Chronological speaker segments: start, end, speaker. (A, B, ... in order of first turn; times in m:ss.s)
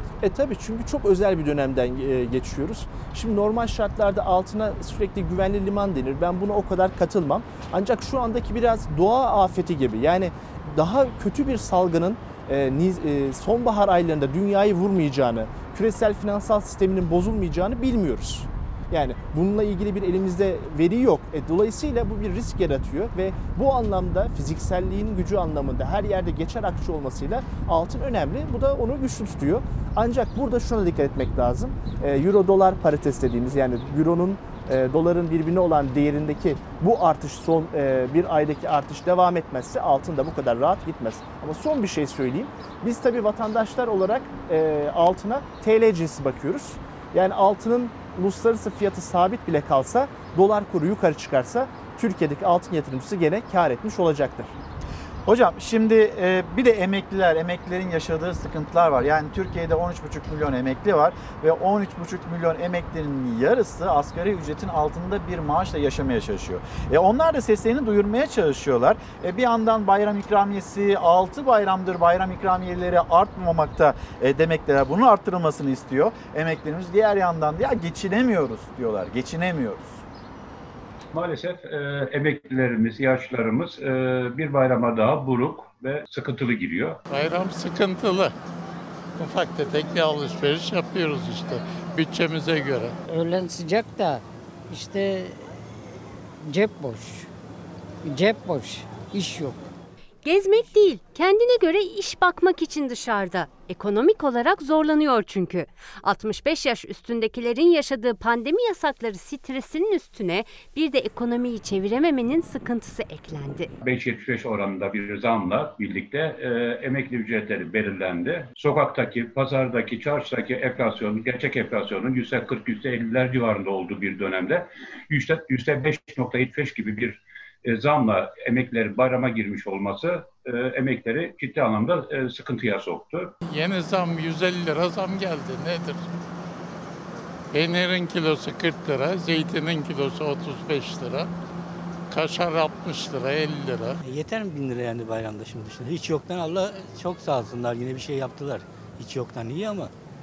0:00.2-0:54.5 A
0:55.3-1:20.0 B
1:21.1-1:27.0 C
1:27.1-1:28.3 D
1:29.2-1:33.0 D
1:33.1-1:35.4 E
1:36.4-1:37.3 E
1:38.0-1:39.6 E
1:40.2-1:53.7 F
1:53.8-2:13.4 C
2:13.5-2:16.0 D
2:17.5-2:21.3 D
2:22.1-2:24.0 D
2:24.1-2:29.8 G